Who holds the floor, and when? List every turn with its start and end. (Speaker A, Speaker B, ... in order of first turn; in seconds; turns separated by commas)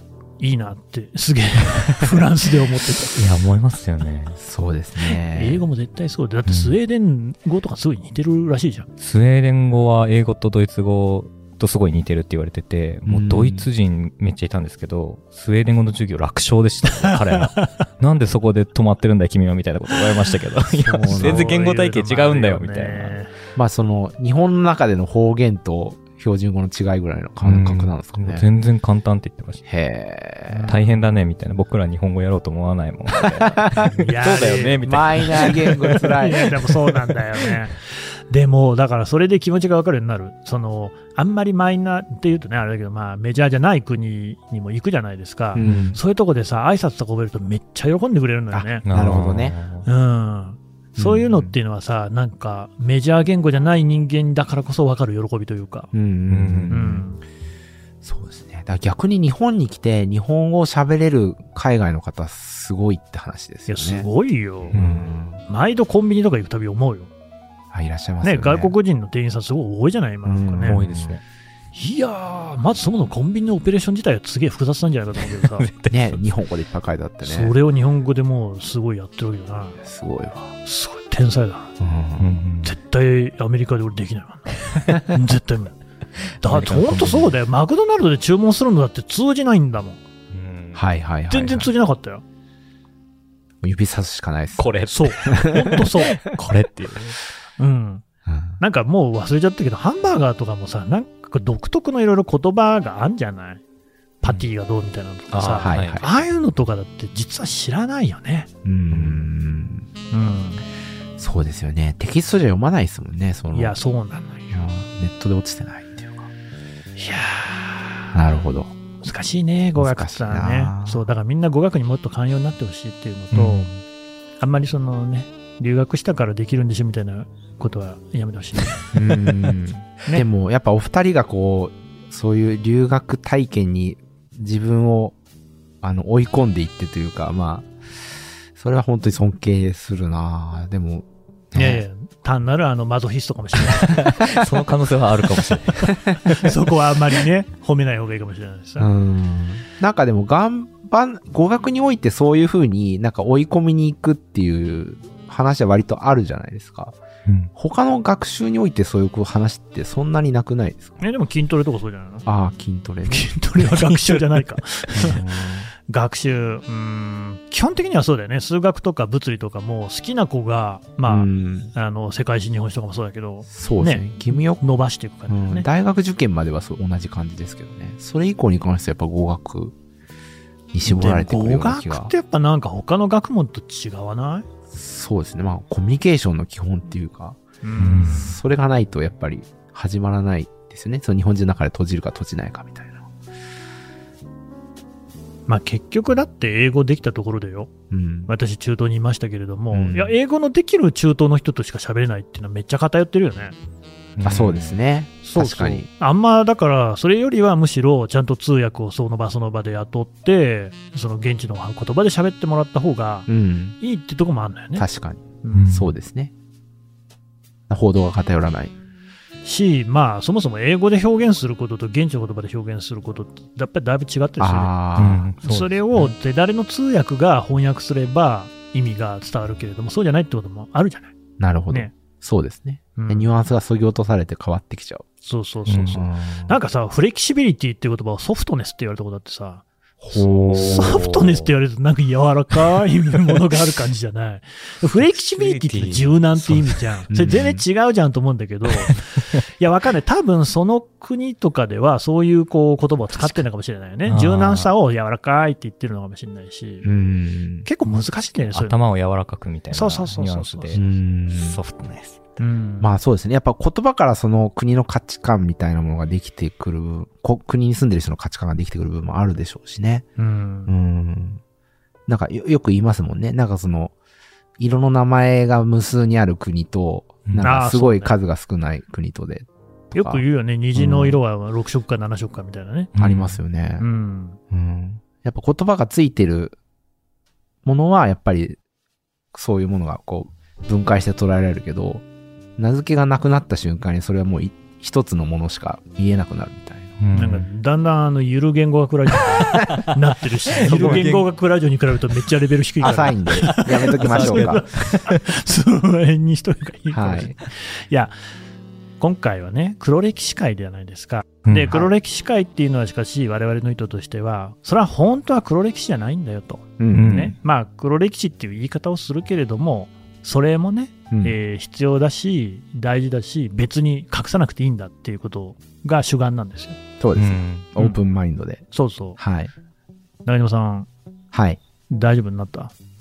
Speaker A: 0.4-3.2, Speaker B: 3.1-4.4, Speaker C: 4.3-5.6, Speaker A: 5.0-8.9, Speaker C: 6.5-6.8, Speaker B: 9.0-23.2, Speaker C: 13.1-13.7, Speaker A: 16.8-17.8, Speaker C: 20.8-21.5, Speaker A: 21.1-23.3, Speaker C: 23.6-28.4, Speaker B: 27.4-29.6, Speaker C: 29.7-30.7, Speaker A: 30.5-30.9, Speaker B: 30.7-36.1, Speaker C: 33.3-33.9, Speaker A: 33.8-35.5, Speaker C: 34.8-36.5, Speaker A: 36.2-48.8, Speaker C: 45.5-46.0, Speaker B: 45.6-46.0, Speaker C: 48.5-49.5, Speaker B: 48.9-49.9, Speaker A: 49.8-55.9, Speaker C: 51.0-51.5, Speaker C: 55.9-57.0, Speaker B: 56.3-57.0, Speaker A: 56.7-57.2, Speaker C: 58.0-64.1, Speaker A: 63.7-64.8, Speaker B: 64.7-65.0, Speaker C: 64.7-65.4, Speaker A: 65.4-67.1, Speaker C: 67.7-68.7, Speaker A: 68.2-70.8, Speaker C: 70.2-71.2, Speaker B: 70.6-71.2, Speaker A: 71.7-75.7, Speaker B: 75.5-76.2, Speaker C: 75.9-77.5, Speaker A: 77.2-79.8, Speaker C: 79.8-80.5, Speaker A: 80.6-81.7, Speaker C: 81.8-82.3, Speaker B: 82.2-82.8, Speaker A: 82.6-85.8, Speaker A: 86.4-90.0, Speaker B: 86.5-87.1, Speaker C: 86.6-87.3, Speaker B: 90.3-90.8, Speaker C: 90.7-91.7, Speaker A: 91.3-92.2, Speaker C: 93.6-95.7, Speaker B: 94.6-97.2, Speaker A: 94.9-96.4, Speaker A: 97.6-98.0, Speaker C: 98.2-98.6, Speaker A: 98.6-103.6, Speaker A: 104.2-108.5, Speaker B: 105.3-106.0, Speaker C: 105.6-106.0, Speaker C: 108.6-109.9, Speaker B: 108.9-109.2, Speaker A: 110.1-110.6, Speaker C: 111.2-113.8, Speaker A: 113.5-114.5, Speaker C: 114.5-116.3, Speaker A: 117.0-118.1, Speaker C: 118.1-118.7, Speaker A: 119.0-123.7, Speaker C: 119.8-121.0, Speaker B: 123.3-123.8, Speaker A: 124.4-129.4, Speaker C: 128.9-135.1, Speaker C: 135.8-137.7, Speaker C: 138.6-141.8, Speaker A: 141.5-144.2, Speaker B: 143.7-146.5, Speaker A: 145.8-148.9, Speaker C: 148.8-156.9, Speaker C: 157.5-160.9, Speaker A: 161.0-162.2, Speaker C: 162.2-163.3, Speaker A: 163.1-165.2, Speaker B: 163.7-164.2, Speaker C: 164.9-165.7, Speaker A: 165.9-175.7, Speaker C: 171.1-171.7, Speaker C: 173.5-174.6, Speaker C: 175.3-179.7, Speaker C: 180.7-182.1, Speaker A: 180.8-184.5, Speaker C: 184.7-187.4, Speaker A: 187.6-188.3, Speaker B: 187.8-188.3, Speaker C: 188.0-193.1, Speaker A: 195.5-197.7, Speaker C: 197.9-198.3, Speaker A: 198.3-203.6, Speaker C: 199.7-200.1, Speaker B: 204.2-204.8, Speaker C: 204.2-205.9, Speaker A: 205.2-213.3, Speaker C: 213.3-213.8, Speaker A: 213.8-214.9, Speaker C: 214.8-216.3, Speaker A: 215.4-215.7, Speaker B: 215.5-215.9, Speaker C: 217.7-218.7, Speaker A: 219.4-224.8, Speaker C: 224.4-225.3, Speaker B: 225.0-226.1, Speaker A: 225.4-231.1, Speaker C: 231.4-235.1, Speaker A: 232.9-233.3, Speaker A: 235.2-239.6, Speaker B: 235.7-236.0, Speaker C: 235.9-236.6, Speaker C: 240.0-241.5, Speaker B: 240.1-241.1, Speaker A: 240.5-249.0, Speaker B: 244.9-246.8, Speaker C: 247.1-247.6, Speaker A: 249.6-256.9, Speaker B: 253.2-253.4, Speaker B: 254.1-254.7, Speaker C: 256.8-257.7, Speaker A: 257.6-258.7, Speaker B: 257.9-262.2, Speaker A: 259.7-260.8, Speaker C: 260.7-261.6, Speaker A: 262.4-262.9, Speaker C: 262.8-270.1, Speaker A: 270.2-270.7, Speaker C: 270.7-271.4, Speaker C: 272.1-273.9, Speaker C: 274.6-281.2, Speaker A: 277.4-278.1, Speaker A: 279.9-282.9, Speaker B: 282.9-283.4, Speaker C: 283.0-283.8, Speaker A: 283.8-284.4, Speaker C: 284.5-286.6, Speaker C: 287.6-288.6, Speaker C: 289.3-292.0, Speaker C: 292.6-296.9, Speaker B: 297.0-297.4, Speaker A: 297.1-308.1, Speaker B: 300.6-301.3, Speaker C: 302.8-304.6, Speaker B: 304.0-305.2, Speaker C: 306.9-307.3, Speaker A: 309.0-326.8, Speaker B: 311.4-311.7, Speaker C: 316.8-317.3, Speaker B: 316.9-317.3, Speaker C: 327.0-328.6, Speaker B: 327.1-327.7, Speaker A: 328.7-329.2, Speaker C: 329.2-329.5, Speaker A: 330.2-330.9, Speaker C: 331.3-331.6, Speaker A: 331.9-332.7